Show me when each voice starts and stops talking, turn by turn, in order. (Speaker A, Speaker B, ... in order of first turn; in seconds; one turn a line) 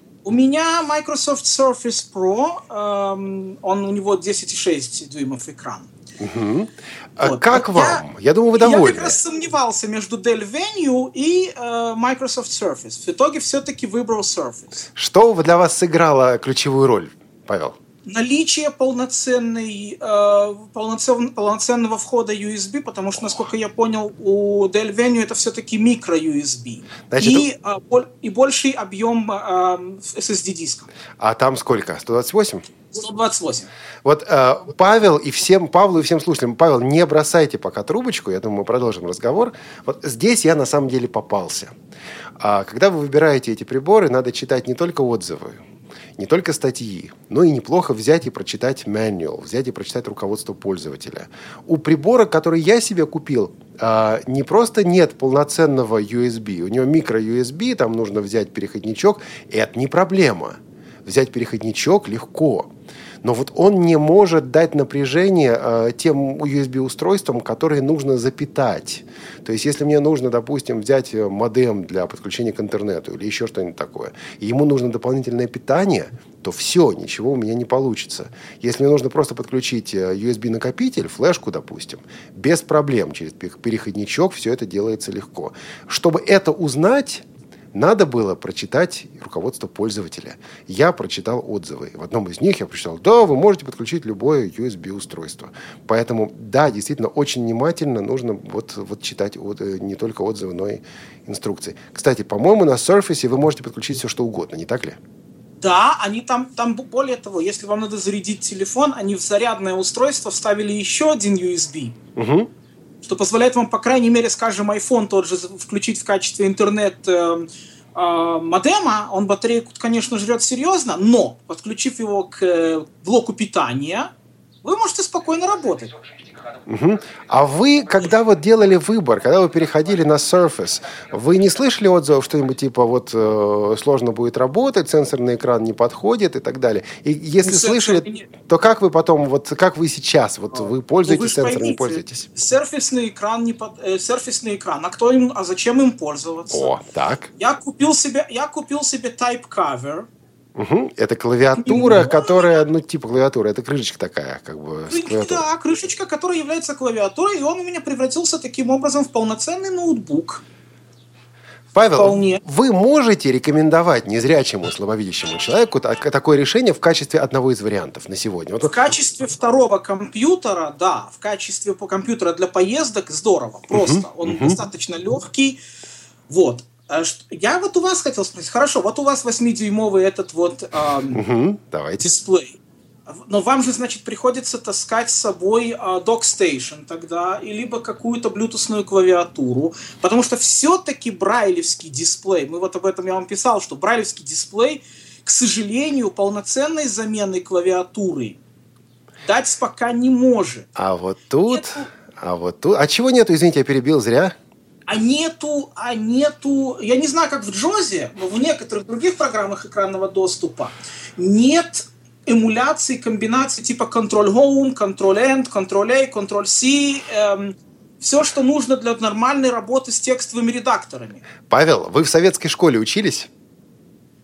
Speaker A: 0.2-5.9
Speaker B: 6.2-9.2
Speaker A: 7.2-8.0
Speaker A: 8.6-14.9
Speaker B: 14.9-17.8
Speaker A: 18.1-30.9
Speaker B: 27.1-27.5
Speaker B: 31.2-32.7
Speaker A: 32.9-33.7
Speaker B: 34.0-41.8
Speaker B: 42.4-45.6
Speaker B: 46.2-62.7
Speaker B: 63.2-105.0
Speaker A: 105.6-112.0
Speaker B: 112.2-112.5
Speaker A: 113.0-124.1
Speaker A: 124.6-126.0
Speaker B: 126.7-142.3
Speaker A: 137.4-138.3
Speaker A: 140.6-146.7
Speaker B: 146.5-147.3
Speaker A: 147.4-150.1
Speaker B: 150.6-155.5
Speaker A: 151.6-152.5
Speaker A: 154.9-160.4
Speaker B: 161.7-168.9
Speaker A: 161.9-162.4
Speaker A: 168.6-175.6
Speaker B: 173.7-174.6
Speaker A: 176.3-181.2
Speaker B: 181.1-182.2
Speaker A: 182.0-198.4
Speaker A: 199.2-200.7
Speaker B: 200.8-204.4
Speaker A: 201.5-201.9
Speaker A: 204.9-221.2
Speaker B: 221.5-223.3